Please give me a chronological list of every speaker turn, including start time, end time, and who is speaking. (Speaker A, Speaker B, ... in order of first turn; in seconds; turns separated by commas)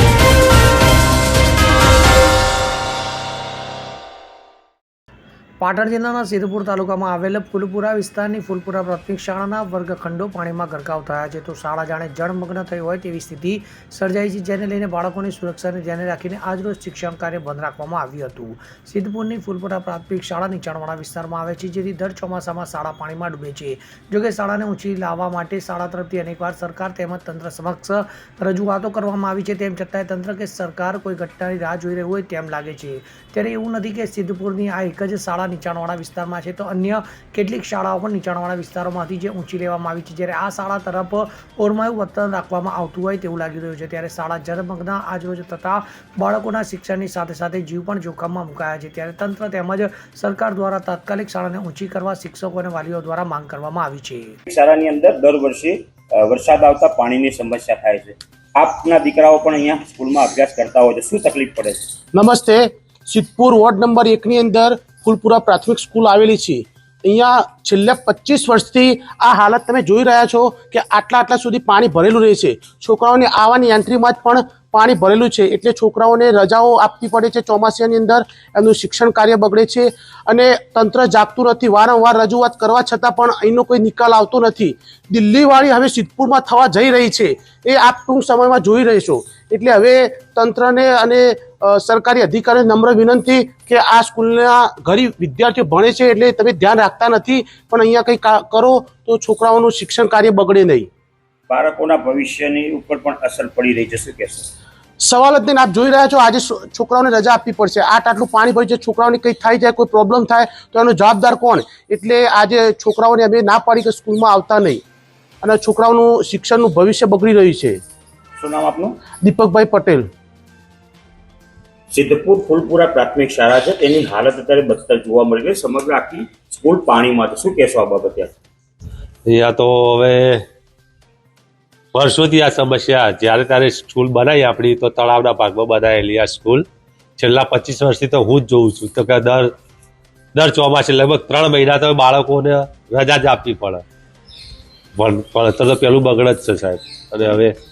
Speaker A: 5.6-54.3, Speaker B: 54.5-61.8, Speaker C: 62.1-100.9, Speaker B: 101.5-104.5, Speaker C: 105.0-114.8, Speaker C: 115.4-117.8, Speaker B: 118.4-118.9, Speaker C: 119.2-120.1, Speaker B: 121.9-128.3, Speaker D: 129.3-130.4, Speaker D: 131.9-136.6, Speaker D: 137.2-139.5, Speaker D: 140.3-143.8, Speaker D: 145.0-147.5